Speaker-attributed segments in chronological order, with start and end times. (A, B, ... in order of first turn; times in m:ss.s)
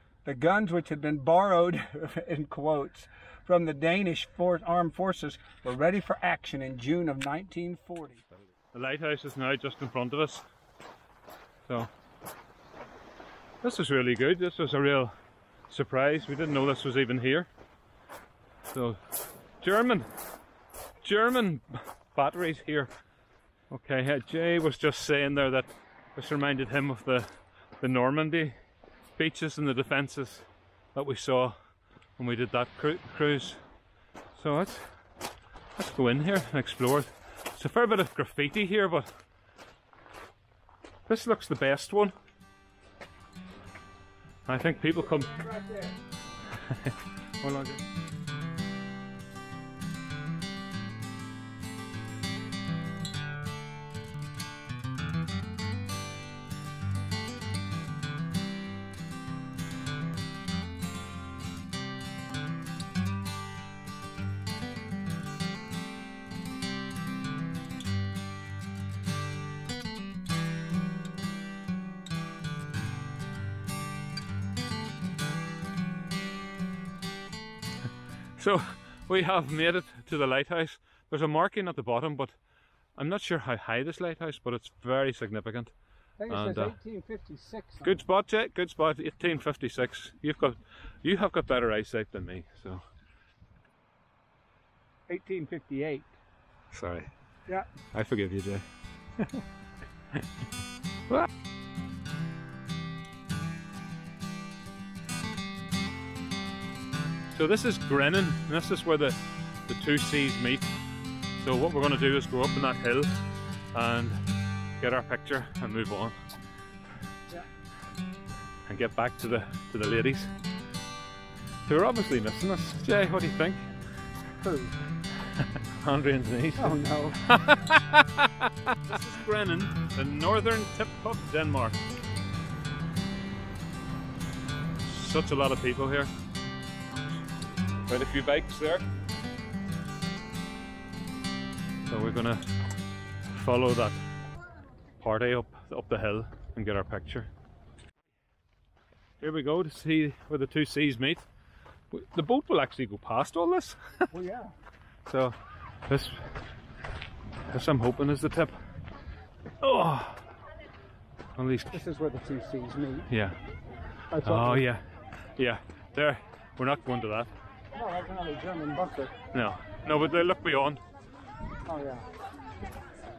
0:00.2-0:08.2 A
0:08.7-0:10.4 B
0:13.6-0:15.1 B
0:15.7-0:17.5 B
0:18.7-0:19.0 B
0:19.6-0:20.1 B
0:21.0-0:22.9 B
0:23.7-0:27.3 B
0:27.8-0:28.6 B
0:29.1-0:31.6 B
0:32.2-0:33.6 B
0:34.3-0:34.9 B
0:35.8-0:39.1 B
0:41.1-0:42.1 B
0:44.4-0:45.4 B
0:45.2-0:46.0 A
0:47.4-0:47.8 B
1:18.4-1:22.4 B
1:22.9-1:25.7 B
1:26.2-1:28.0 A
1:26.3-1:26.8 B
1:27.8-1:32.8 B
1:35.1-1:36.1 A
1:36.7-1:37.1 B
1:37.9-1:38.6 B
1:39.2-1:39.4 B
1:47.3-1:50.6 B
1:51.4-1:53.1 B
1:53.7-1:54.2 B
1:54.8-1:56.2 B
1:58.6-2:00.3 B
2:01.6-2:03.7 B
2:04.4-2:04.7 A
2:05.6-2:11.8 B
2:06.6-2:07.2 A
2:14.8-2:16.1 B
2:17.9-2:18.8 B
2:21.9-2:22.4 B
2:23.3-2:24.0 B
2:25.0-2:27.3 B
2:29.2-2:31.2 B
2:31.9-2:34.1 B
2:34.1-2:34.5 A
2:35.0-2:35.4 B
2:35.9-2:36.3 B
2:37.5-2:38.5 B
2:39.6-2:40.2 B
2:41.4-2:41.8 B
2:41.7-2:43.1 A
2:43.1-2:43.4 B
2:44.1-2:44.7 A
2:44.2-2:44.8 B
2:45.4-2:47.3 B
2:47.7-2:49.1 A
2:49.3-2:50.8 B
2:51.6-2:52.1 A